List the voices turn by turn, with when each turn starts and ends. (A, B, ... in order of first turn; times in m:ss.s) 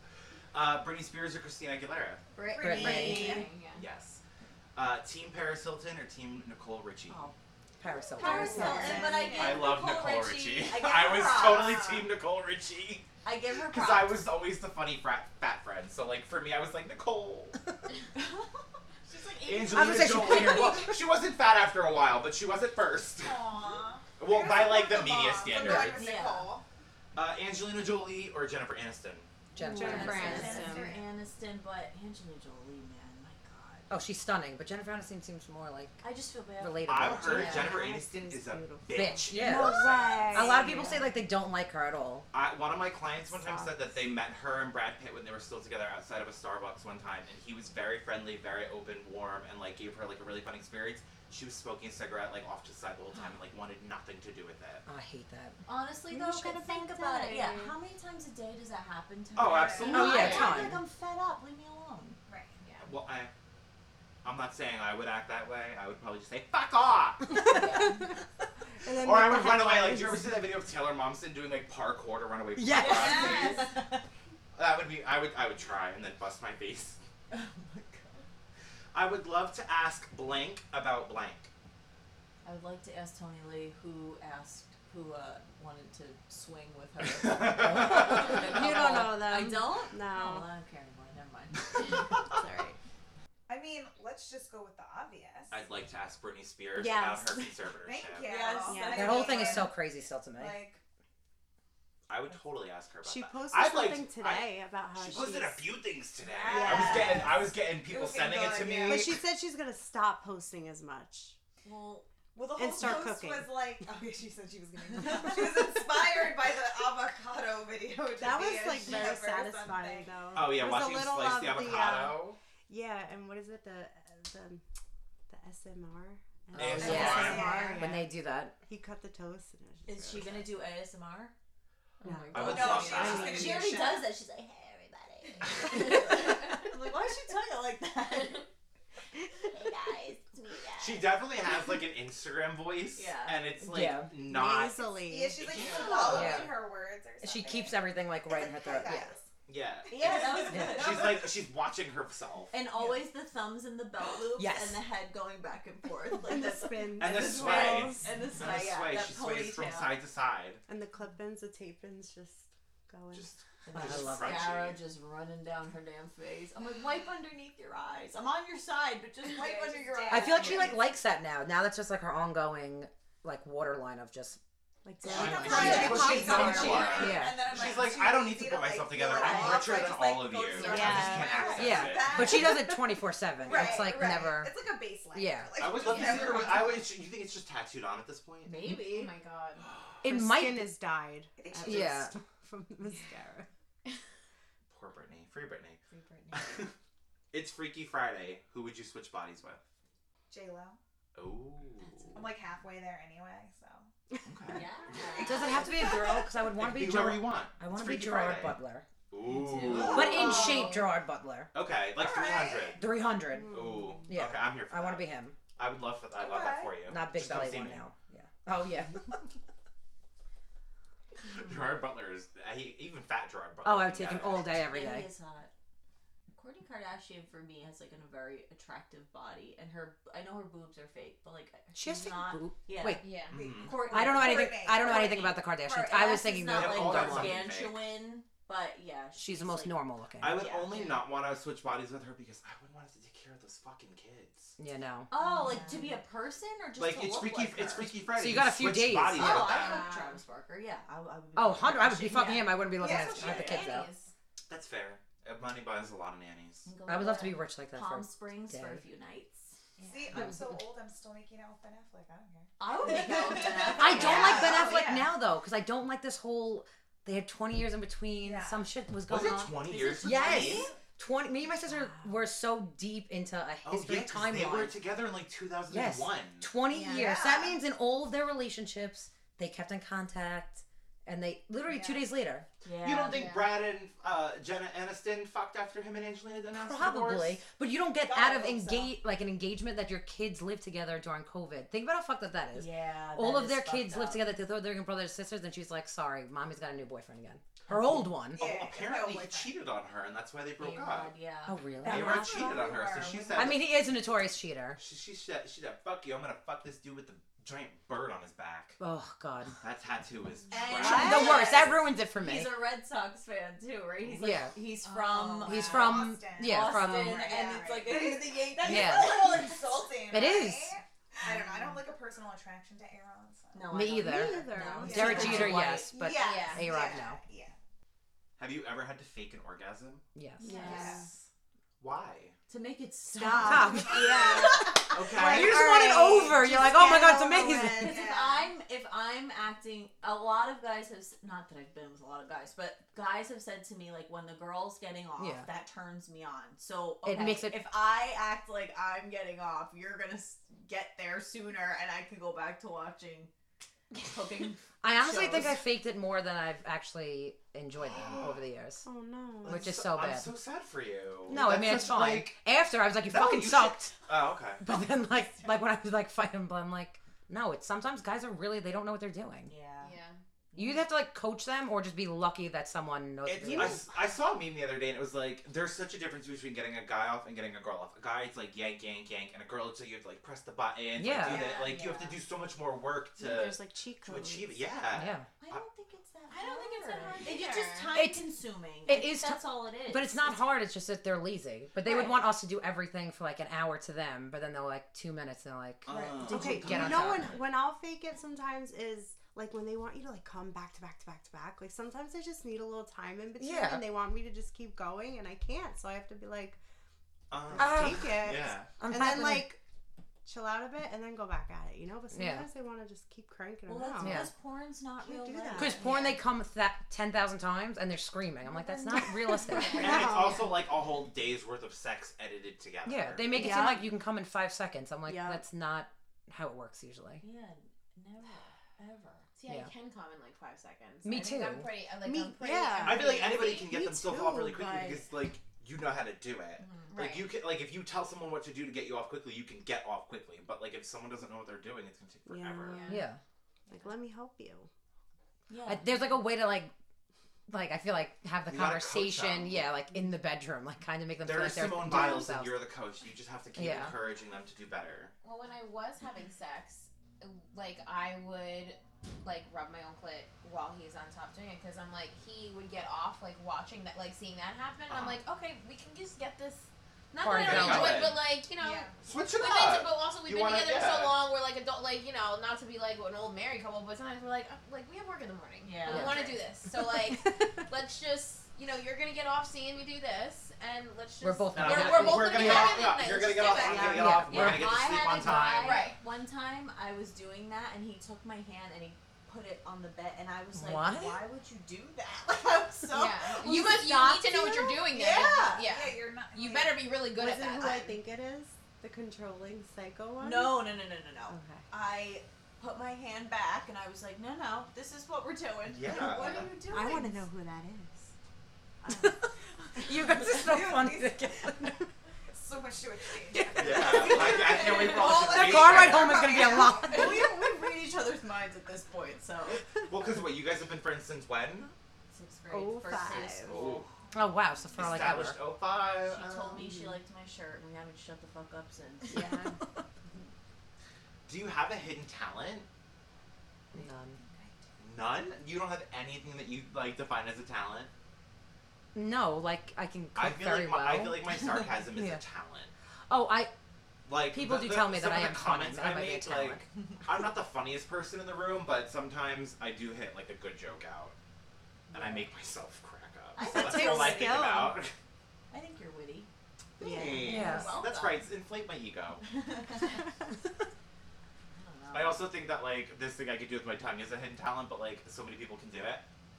0:00.5-0:02.2 A
0:02.4-0:03.5 B
0:02.5-0:03.5 C
0:02.6-0:03.4 D
0:02.9-0:03.8 E
0:03.8-0:04.2 A
0:04.8-0:07.3 A
0:07.1-0:07.3 B
0:07.8-0:08.9 D
0:08.2-0:12.0 B
0:08.2-0:09.8 C
0:08.3-0:09.2 F
0:09.3-0:13.1 A
0:11.1-0:12.0 C
0:13.2-0:14.2 B
0:13.7-0:17.6 A
0:19.1-0:20.7 B
0:19.4-0:23.5 A
0:19.4-0:19.7 C
0:19.7-0:20.9 D
0:23.2-0:26.6 C
0:24.2-0:26.0 A
0:25.6-0:26.5 B
0:27.2-0:29.3 A
0:29.6-0:30.6 D
0:29.6-0:30.9 F
0:29.6-0:33.9 B
0:29.9-0:31.1 C
0:33.9-0:36.0 D
0:36.0-0:37.8 B
0:36.6-0:37.7 D
0:36.9-0:40.5 A
0:37.3-0:41.0 F
0:38.9-0:39.8 D
0:39.5-0:40.9 C
0:40.3-0:42.3 D
0:40.5-0:41.0 B
0:42.3-0:54.8 A
0:43.3-0:43.8 F
0:54.9-0:55.6 D
0:55.7-1:02.2 B
0:56.1-0:57.8 F
0:59.4-1:00.6 A
0:59.4-1:00.2 C
0:59.9-1:00.8 D
1:00.1-1:00.6 E
1:02.3-1:02.6 C
1:02.6-1:02.9 E
1:02.8-1:03.3 A
1:04.2-1:07.4 A
1:07.4-1:08.1 F
1:07.4-1:08.0 E
1:08.8-1:10.5 F
1:08.9-1:13.7 A
1:12.6-1:13.5 D
1:12.8-1:14.0 B
1:14.6-1:17.0 A
1:17.3-1:18.2 B
1:18.9-1:21.5 A
1:22.4-1:32.0 B
1:27.1-1:28.5 A
1:27.7-1:30.5 F
1:32.3-1:32.8 F
1:33.5-1:35.6 C
1:35.5-1:38.3 A
1:36.8-1:37.5 F
1:37.8-1:39.8 C
1:38.2-1:39.7 B
1:38.7-1:39.3 F
1:38.9-1:40.6 D
1:40.3-1:40.8 C
1:42.1-1:49.2 A
1:43.0-1:45.7 F
1:46.3-1:47.2 B
1:46.5-1:49.1 C
1:46.6-1:47.3 F
1:48.8-1:51.4 F
1:51.6-1:52.1 B
1:52.3-2:00.4 C
1:52.6-1:54.0 F
1:55.0-1:55.7 F
1:58.1-2:04.6 F
2:00.3-2:02.4 A
2:05.3-2:08.1 F
2:06.6-2:07.6 A
2:06.6-2:08.6 D
2:06.8-2:08.0 C
2:08.7-2:10.5 F
2:09.9-2:11.3 B
2:12.0-2:13.2 E
2:12.0-2:13.7 F
2:12.3-2:13.5 A
2:12.4-2:14.1 C
2:12.5-2:18.5 B
2:19.4-2:21.1 B
2:20.8-2:24.8 A
2:23.0-2:23.4 B
2:23.6-2:24.1 D
2:24.2-2:25.4 F
2:24.7-2:29.3 C
2:25.3-2:26.5 A
2:26.1-2:26.6 D
2:27.2-2:29.1 D
2:29.5-2:32.5 A
2:29.9-2:31.1 C
2:29.9-2:31.2 B
2:32.5-2:40.0 B
2:32.8-2:33.0 C
2:34.4-2:34.8 D
2:36.1-2:38.1 F
2:37.0-2:40.6 A
2:40.7-2:43.3 F
2:43.1-2:44.8 A
2:43.7-2:50.8 B
2:43.7-2:44.5 D
2:49.2-2:50.9 C
2:50.1-2:54.4 D
2:54.8-2:57.1 F
2:55.1-3:02.9 C
2:55.1-2:57.0 B
2:55.1-3:02.4 A
2:55.4-2:57.5 D
2:59.2-2:59.5 D
2:59.3-3:01.8 B
3:00.6-3:01.7 F
3:01.6-3:04.5 D
3:03.4-3:06.9 C
3:05.1-3:05.5 D
3:05.6-3:08.6 A
3:05.9-3:06.4 E
3:08.4-3:09.1 B
3:08.8-3:09.7 E
3:10.0-3:10.7 D
3:10.0-3:13.5 F
3:11.4-3:12.1 C
3:11.6-3:12.1 D
3:14.7-3:15.8 A
3:15.9-3:16.7 B
3:16.3-3:16.7 A
3:17.3-3:19.6 A
3:20.3-3:20.8 C
3:21.2-3:22.3 A
3:21.8-3:22.3 B
3:22.1-3:23.9 C
3:24.2-3:25.4 A
3:24.5-3:25.7 B
3:25.0-3:26.3 C
3:25.2-3:28.9 D
3:26.5-3:28.6 A
3:29.1-3:30.6 A
3:29.2-3:30.6 B
3:29.7-3:30.8 C
3:29.8-3:31.5 D
3:31.5-3:32.8 A
3:31.9-3:32.8 C
3:32.8-3:33.5 D
3:33.3-3:34.1 F
3:33.5-3:37.8 A
3:34.1-3:35.4 D
3:36.1-3:36.8 C
3:36.9-3:39.2 D
3:41.2-3:44.5 A
3:43.6-3:45.1 D
3:44.6-3:45.5 B
3:46.3-3:59.8 B
3:51.7-3:53.1 D
3:53.0-3:53.4 E
3:53.3-3:55.4 C
3:53.3-3:53.8 A
3:53.9-3:57.5 D
3:56.4-3:57.9 A
3:59.2-4:00.4 D
4:00.2-4:04.6 A
4:00.3-4:00.8 C
4:00.5-4:01.0 B
4:04.6-4:05.1 D
4:05.1-4:07.9 B
4:05.2-4:05.9 C
4:06.8-4:09.9 A
4:08.1-4:09.4 D
4:09.2-4:12.8 B
4:09.4-4:10.2 E
4:11.4-4:13.9 D
4:12.8-4:13.8 C
4:12.9-4:14.1 E
4:14.5-4:16.7 A
4:16.7-4:19.6 B
4:16.9-4:18.8 D
4:19.8-4:25.2 C
4:20.2-4:20.5 D
4:22.6-4:24.8 B
4:23.8-4:34.8 D
4:28.2-4:28.7 C
4:29.1-4:30.7 A
4:29.6-4:30.8 B
4:33.6-4:36.5 A
4:35.7-4:42.5 D
4:36.7-4:37.6 C
4:36.8-4:37.1 E
4:41.7-4:42.1 C
4:42.6-4:43.3 B
4:42.8-4:47.4 A
4:43.0-4:43.5 E
4:46.5-4:58.5 D
4:48.0-4:49.0 C
4:52.5-4:54.3 B
4:58.2-5:01.2 A
4:58.3-4:59.6 C
5:00.6-5:01.7 B
5:01.5-5:02.4 D
5:01.8-5:03.6 C
5:01.8-5:03.7 A
5:01.9-5:02.8 F
5:03.4-5:04.8 D
5:04.8-5:08.8 A
5:08.8-5:09.6 D
5:09.6-5:11.6 A
5:10.5-5:11.6 C
5:10.5-5:19.9 B
5:10.8-5:11.3 F
5:10.8-5:12.6 D
5:14.2-5:14.6 D
5:14.9-5:24.0 C
5:15.4-5:17.4 D
5:18.6-5:19.4 D
5:20.1-5:20.8 D
5:21.2-5:21.8 B
5:23.5-5:26.0 B
5:23.7-5:27.2 D
5:24.0-5:25.6 F
5:24.8-5:27.6 C
5:26.2-5:26.7 E
5:28.4-5:30.0 A
5:30.2-5:30.5 D
5:30.4-5:30.8 E
5:30.5-5:31.1 B
5:30.5-5:31.0 F
5:30.5-5:31.1 C
5:31.8-5:32.4 A
5:32.5-5:34.8 B
5:33.1-5:38.1 F
5:33.4-5:38.0 D
5:33.9-5:34.5 C
5:34.9-5:35.7 A
5:37.7-5:53.3 B
5:37.7-5:38.5 C
5:45.2-5:45.5 D
5:47.0-5:47.7 D
5:54.0-5:55.6 B
5:54.8-5:58.9 D
5:55.1-5:55.5 A
5:57.8-5:58.4 A
5:58.8-5:59.8 F
5:59.4-6:00.3 D
5:59.4-6:02.4 A
6:01.3-6:03.9 D
6:03.0-6:04.6 A
6:04.6-6:09.5 D
6:09.5-6:10.0 B
6:09.8-6:10.2 E
6:10.5-6:10.9 B
6:10.6-6:13.8 D
6:13.2-6:25.6 A
6:13.5-6:13.8 F
6:21.0-6:21.5 D
6:21.3-6:21.9 C
6:23.2-6:24.7 F
6:24.9-6:25.3 D
6:25.4-6:30.4 B
6:26.3-6:28.0 E
6:26.3-6:27.6 C
6:27.9-6:28.2 D
6:28.8-6:37.4 D
6:31.8-6:32.1 B
6:35.8-6:37.4 A
6:35.9-6:37.0 B
6:36.3-6:46.6 F
6:43.4-6:43.9 D
6:47.3-6:48.8 A
6:47.5-6:49.6 F
6:47.6-6:49.5 D
6:50.2-6:54.3 F
6:52.1-6:52.5 D
6:53.7-6:56.2 B
6:54.0-6:54.3 D
6:55.0-6:55.9 F
6:55.6-6:59.9 D
6:58.5-6:59.2 B
6:59.7-7:00.5 F
6:59.7-7:03.6 A
7:02.8-7:07.2 D
7:03.3-7:03.9 F
7:05.1-7:05.4 F
7:07.2-7:09.3 B
7:09.4-7:13.7 E
7:11.0-7:11.7 D
7:12.0-7:15.1 F
7:12.8-7:22.9 A
7:16.6-7:16.9 B
7:16.9-7:17.3 E
7:22.3-7:23.0 F
7:22.7-7:23.0 E
7:22.9-7:23.2 D
7:23.7-7:24.7 F
7:25.5-7:26.0 B
7:25.7-7:26.7 D
7:27.5-7:32.6 D
7:28.5-7:29.6 A
7:31.2-7:35.1 A
7:33.6-7:34.0 D
7:35.2-8:04.1 E
7:44.9-7:45.2 A
7:47.2-7:48.2 D
7:47.3-7:48.3 A
7:48.6-7:49.0 C
7:49.0-7:51.2 A
7:55.6-7:56.4 B
7:55.9-7:56.2 D
8:01.2-8:02.8 D
8:01.5-8:05.9 A
8:03.5-8:04.2 F
8:03.8-8:05.6 D
8:04.3-8:14.0 B
8:05.6-8:06.0 E
8:10.6-8:11.2 D
8:12.9-8:17.9 E
8:13.4-8:14.6 D
8:14.9-8:15.7 B
8:15.0-8:17.0 C
8:17.2-8:21.7 F
8:20.2-8:27.3 B
8:25.7-8:26.5 A
8:26.7-8:28.1 F
8:28.8-8:29.2 F
8:28.9-8:29.2 D
8:29.8-8:31.8 D
8:30.1-8:31.7 C
8:32.3-8:37.4 C
8:33.3-8:37.3 D
8:33.6-8:36.3 A
8:36.8-8:39.6 B
8:39.9-8:41.7 A
8:42.1-8:43.8 B
8:42.5-8:43.8 F
8:43.4-8:43.9 A
8:44.1-8:45.4 D
8:44.7-8:46.6 A
8:46.0-8:49.3 B
8:49.1-8:49.5 D
8:49.1-8:49.5 F
8:51.3-8:52.7 A
8:53.7-8:54.2 D
8:54.1-8:54.7 C
8:54.8-8:57.9 A
8:58.9-9:01.4 D
9:00.2-9:02.7 A
9:01.9-9:02.2 D
9:03.1-9:03.5 D
9:04.1-9:11.2 A
9:04.3-9:06.7 D
9:11.9-9:12.3 B
9:11.9-9:14.9 A
9:13.4-9:14.4 B
9:13.4-9:14.8 F
9:15.5-9:16.3 B
9:16.8-9:17.7 F
9:16.8-9:19.2 A
9:16.9-9:18.3 B
9:17.2-9:17.7 D
9:19.2-9:19.9 B
9:21.5-9:22.3 B
9:21.9-9:26.0 A